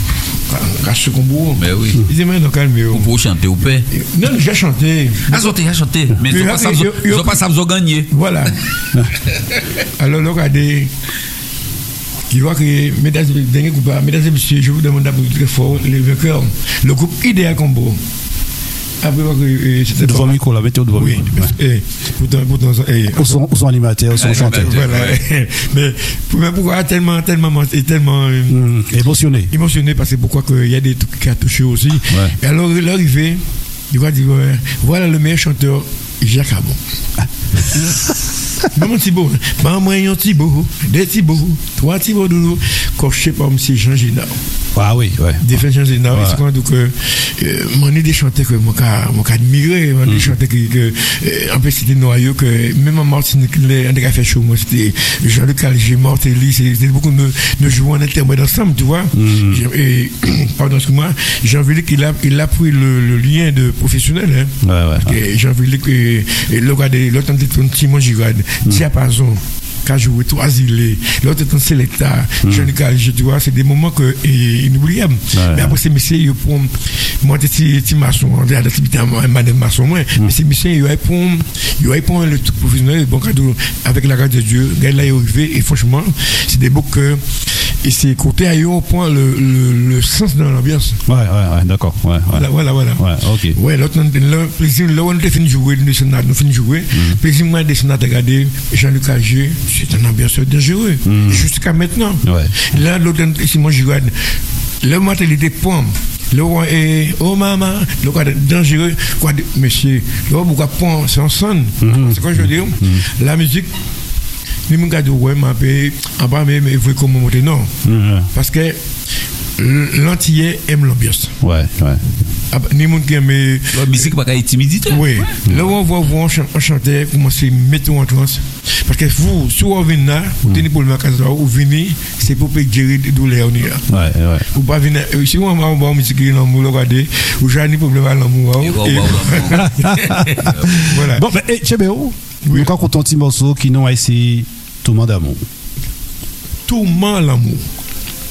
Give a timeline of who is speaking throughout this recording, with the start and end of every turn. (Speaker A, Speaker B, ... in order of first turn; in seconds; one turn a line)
Speaker A: 0.3-3.1
Speaker B: 1.6-2.0
Speaker B: 2.9-3.9
Speaker A: 3.9-5.6
Speaker B: 5.3-8.5
Speaker A: 6.2-7.4
Speaker A: 8.1-8.6
Speaker A: 9.2-10.9
Speaker A: 12.3-18.0
Speaker A: 19.0-20.4
Speaker C: 20.0-21.5
Speaker A: 20.9-23.4
Speaker C: 23.1-24.8
Speaker B: 24.2-25.2
Speaker A: 24.2-28.6
Speaker C: 28.5-29.5
Speaker A: 29.5-36.8
Speaker C: 32.1-32.4
Speaker A: 38.7-44.4
Speaker C: 44.7-46.4
Speaker A: 45.4-91.0
Speaker C: 50.1-50.3
Speaker C: 59.1-59.6
Speaker C: 64.6-65.1
Speaker C: 72.4-72.7
Speaker C: 75.3-75.8
Speaker C: 91.0-93.6
Speaker A: 92.3-104.2
Speaker C: 101.0-101.5
Speaker C: 102.2-102.7
Speaker A: 104.8-113.7
Speaker C: 111.8-113.0
Speaker A: 114.7-117.7
Speaker C: 117.8-118.3
Speaker A: 118.3-118.8
Speaker A: 119.6-121.3
Speaker C: 121.4-122.2
Speaker A: 122.5-124.1
Speaker B: 123.7-125.3
Speaker A: 124.9-133.9
Speaker C: 133.9-134.4
Speaker A: 134.5-141.2
Speaker B: 138.6-140.7
Speaker C: 139.5-145.4
Speaker A: 142.4-142.7
Speaker A: 146.7-147.6